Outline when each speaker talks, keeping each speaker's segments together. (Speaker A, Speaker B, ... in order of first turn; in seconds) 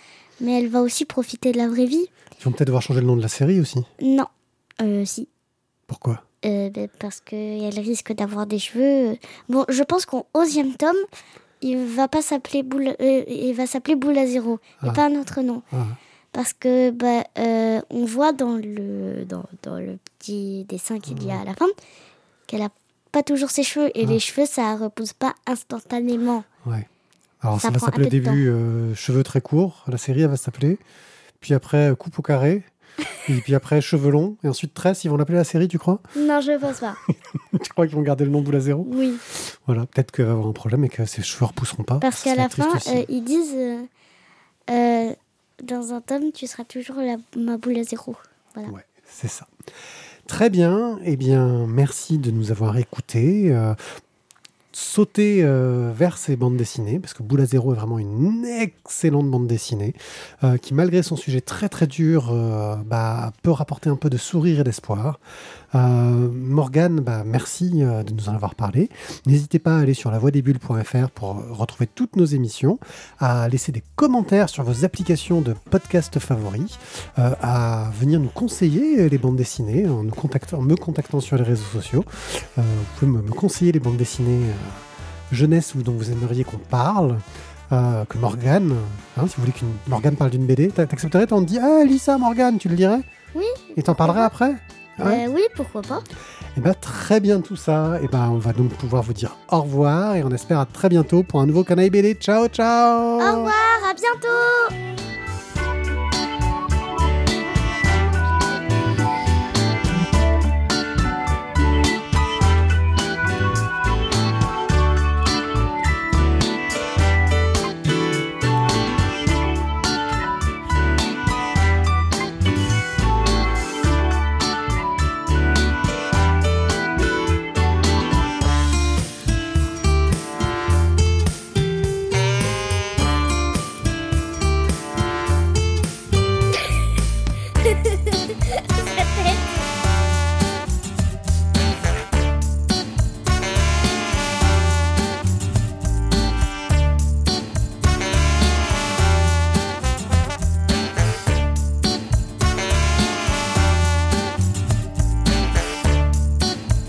Speaker A: 0.4-2.1, 4.0-4.3, 4.8-5.3, 6.4-11.1, 11.6-15.6, 16.3-21.7, 22.5-26.5, 27.6-28.4, 36.1-37.0, 38.8-39.2, 42.0-43.9, 44.7-48.7, 93.3-94.3, 95.0-96.1, 103.2-104.8, 137.6-139.7
Speaker B: 2.4-3.9, 5.9-6.2, 15.7-16.0, 21.1-21.4, 27.4-30.8, 31.4-32.7, 33.2-36.0, 37.3-43.1, 48.7-49.5, 50.3-53.8, 54.7-65.2, 65.7-93.1, 93.8-95.2, 96.6-103.5